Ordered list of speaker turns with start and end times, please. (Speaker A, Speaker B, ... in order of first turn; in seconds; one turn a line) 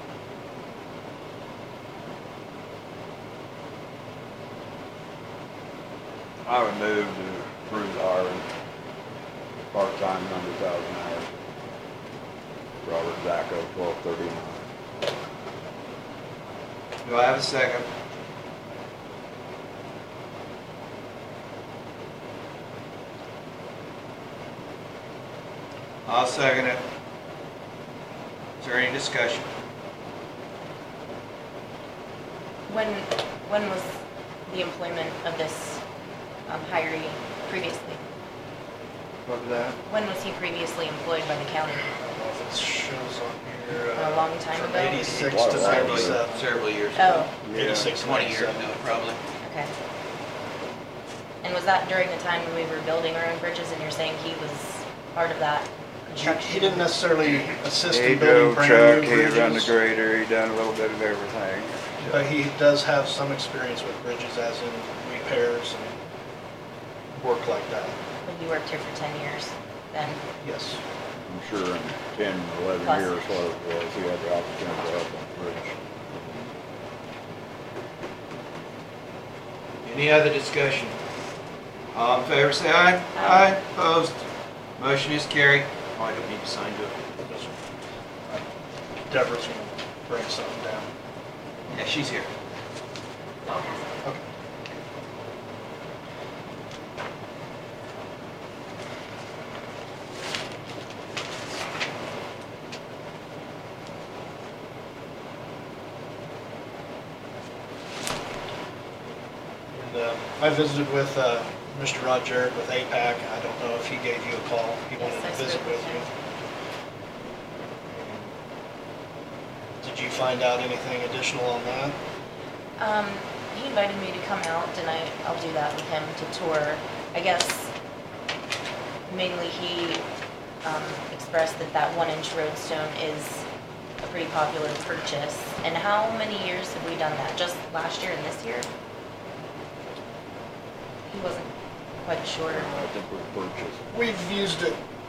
Speaker A: 6.4-8.5
Speaker A: 9.7-11.3
Speaker A: 12.8-14.6
Speaker B: 17.0-17.9
Speaker B: 26.1-26.8
Speaker B: 28.6-29.5
Speaker C: 32.7-33.9
Speaker C: 34.5-35.8
Speaker C: 36.5-38.0
Speaker A: 39.3-39.7
Speaker C: 39.9-41.9
Speaker D: 42.0-46.4
Speaker C: 43.9-45.4
Speaker A: 45.2-46.2
Speaker B: 45.5-47.3
Speaker C: 46.9-47.3
Speaker A: 47.5-47.9
Speaker D: 47.5-48.7
Speaker B: 48.0-49.2
Speaker C: 49.4-49.7
Speaker C: 51.4-56.9
Speaker D: 56.2-59.8
Speaker A: 57.9-61.7
Speaker D: 62.0-65.9
Speaker D: 67.2-68.0
Speaker C: 68.2-70.2
Speaker D: 70.4-70.8
Speaker A: 71.3-75.8
Speaker C: 72.8-73.2
Speaker B: 79.8-80.9
Speaker B: 81.9-84.2
Speaker C: 83.1-83.5
Speaker B: 84.8-87.0
Speaker D: 87.2-87.5
Speaker D: 89.1-90.9
Speaker B: 91.7-92.3
Speaker C: 93.5-93.8
Speaker D: 109.7-116.1
Speaker C: 115.0-116.1
Speaker D: 117.9-118.3
Speaker D: 119.8-121.9
Speaker C: 122.8-127.7
Speaker C: 129.1-130.0
Speaker C: 130.6-133.4
Speaker C: 134.0-138.7
Speaker C: 141.1-141.5
Speaker C: 142.0-142.7
Speaker A: 142.5-143.8
Speaker D: 143.9-144.8